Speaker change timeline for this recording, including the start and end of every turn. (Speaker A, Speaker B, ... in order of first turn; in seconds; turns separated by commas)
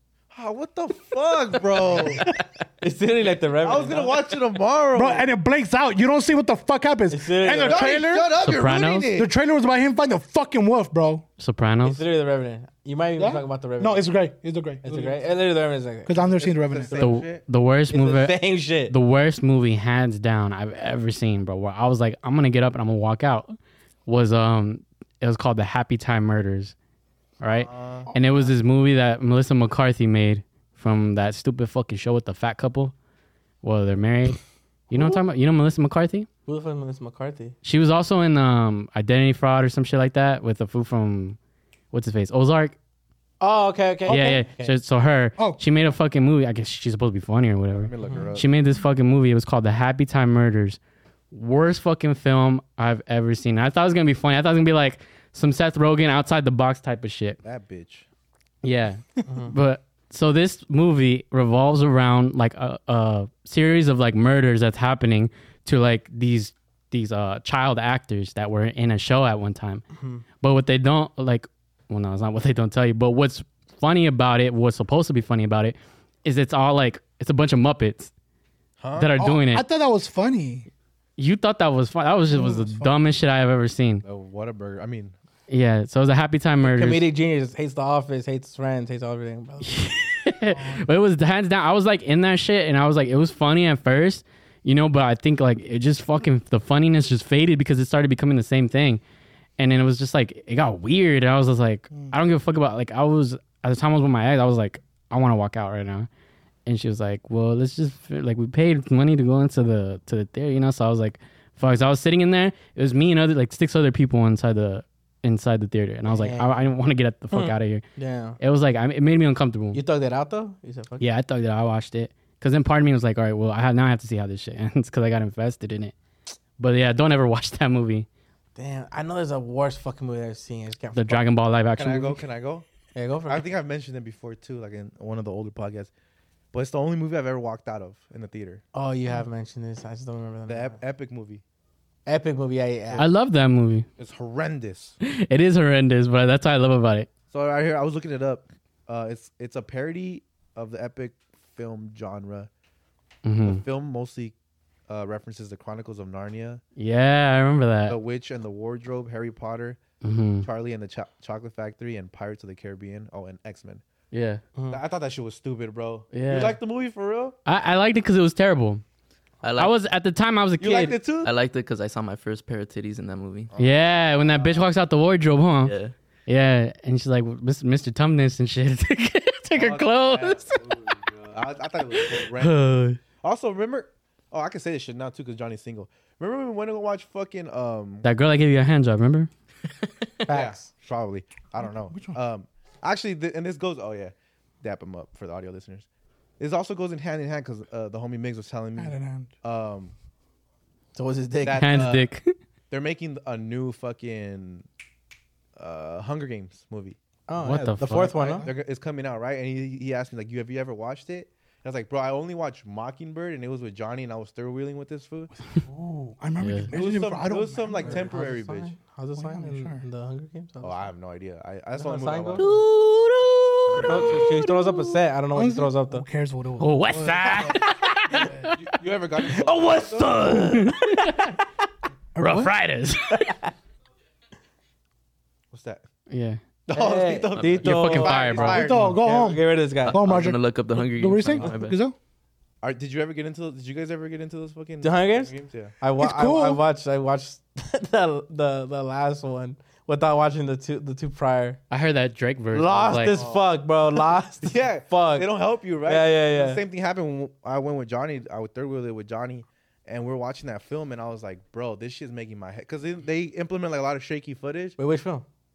Speaker A: 0.3-2.3, Speaker B: 1.8-4.2, Speaker A: 3.6-5.3, Speaker C: 4.9-8.3, Speaker B: 7.1-7.9, Speaker A: 7.6-9.3, Speaker D: 8.4-9.1, Speaker C: 9.1-11.2, Speaker D: 11.4-12.0, Speaker B: 11.8-14.1, Speaker C: 13.2-15.2, Speaker B: 14.8-16.2, Speaker C: 16.1-17.0, Speaker A: 16.3-17.4, Speaker D: 16.9-18.4, Speaker B: 17.9-18.9, Speaker D: 18.9-26.7, Speaker D: 27.4-32.9, Speaker A: 27.5-28.2, Speaker D: 33.6-36.3, Speaker B: 36.5-37.5, Speaker D: 37.6-41.4, Speaker D: 41.9-42.8, Speaker B: 43.4-44.7, Speaker D: 44.1-50.8, Speaker C: 44.1-44.4, Speaker A: 47.8-48.5, Speaker D: 51.3-57.4, Speaker A: 57.4-58.1, Speaker D: 58.6-69.8, Speaker B: 59.3-59.5, Speaker B: 70.0-70.2, Speaker D: 70.4-78.1, Speaker A: 78.8-79.3, Speaker D: 79.0-79.7, Speaker C: 79.2-80.7, Speaker D: 81.2-84.0, Speaker C: 82.3-83.0, Speaker A: 84.0-85.2, Speaker D: 85.5-87.0, Speaker B: 86.6-89.9, Speaker D: 89.6-99.0, Speaker C: 90.5-90.8, Speaker D: 99.6-106.1, Speaker D: 106.7-117.9, Speaker B: 116.1-116.5, Speaker B: 117.3-118.4, Speaker D: 118.4-119.8, Speaker B: 119.7-121.1, Speaker D: 121.0-125.9, Speaker D: 126.6-128.1, Speaker B: 128.6-131.3, Speaker D: 130.9-132.2, Speaker A: 131.8-132.7, Speaker B: 132.9-133.5, Speaker A: 133.3-135.9, Speaker A: 136.5-138.6, Speaker B: 138.7-140.8, Speaker A: 140.5-141.4, Speaker B: 142.1-143.1, Speaker D: 143.0-143.9, Speaker A: 144.0-145.0, Speaker D: 145.0-147.1, Speaker A: 147.3-152.5, Speaker D: 153.2-153.6, Speaker A: 153.4-154.3, Speaker A: 154.9-156.6, Speaker D: 156.8-158.0, Speaker A: 157.9-159.8, Speaker D: 160.0-160.5, Speaker A: 160.4-163.8, Speaker D: 164.1-164.4, Speaker B: 164.6-164.8, Speaker A: 164.7-167.4, Speaker D: 166.1-166.6, Speaker D: 167.5-168.8, Speaker E: 169.4-169.8, Speaker D: 169.6-171.0, Speaker A: 170.6-171.3, Speaker E: 171.2-173.5, Speaker A: 173.5-174.7, Speaker D: 173.6-175.7, Speaker E: 175.6-175.9, Speaker D: 176.3-180.6, Speaker A: 179.6-182.6, Speaker D: 181.9-183.0, Speaker A: 183.2-188.1, Speaker D: 188.0-189.3, Speaker B: 190.3-190.7, Speaker A: 190.3-195.9, Speaker C: 191.9-192.2, Speaker A: 196.4-199.9, Speaker C: 198.8-199.3, Speaker B: 200.9-201.8, Speaker A: 201.4-202.0, Speaker D: 201.6-202.3, Speaker A: 202.7-204.7, Speaker A: 205.6-207.0, Speaker B: 207.3-208.5, Speaker D: 207.4-208.2, Speaker C: 208.2-208.6, Speaker A: 208.4-215.3, Speaker C: 215.6-218.2, Speaker D: 216.4-216.7, Speaker A: 216.7-218.7, Speaker B: 217.8-220.9, Speaker C: 219.2-219.8, Speaker A: 220.6-222.6, Speaker B: 221.8-222.5, Speaker D: 222.4-225.0, Speaker A: 223.7-224.2, Speaker B: 223.8-226.1, Speaker C: 225.3-227.6, Speaker D: 226.6-228.6, Speaker C: 228.2-228.5, Speaker A: 228.6-230.5, Speaker D: 229.2-231.4, Speaker B: 229.4-231.1, Speaker C: 232.2-232.5, Speaker D: 232.2-233.4, Speaker B: 233.1-233.5, Speaker A: 235.5-235.8, Speaker D: 236.1-236.4, Speaker A: 236.7-239.0, Speaker B: 236.7-240.0, Speaker E: 237.4-237.7, Speaker D: 237.6-238.8, Speaker C: 238.4-241.9, Speaker E: 239.9-241.8, Speaker A: 242.6-245.7, Speaker B: 244.8-251.6, Speaker C: 246.0-246.6, Speaker D: 251.7-253.2, Speaker B: 252.5-255.3, Speaker A: 252.7-253.5, Speaker A: 254.4-264.8, Speaker B: 255.8-256.6, Speaker B: 264.8-265.2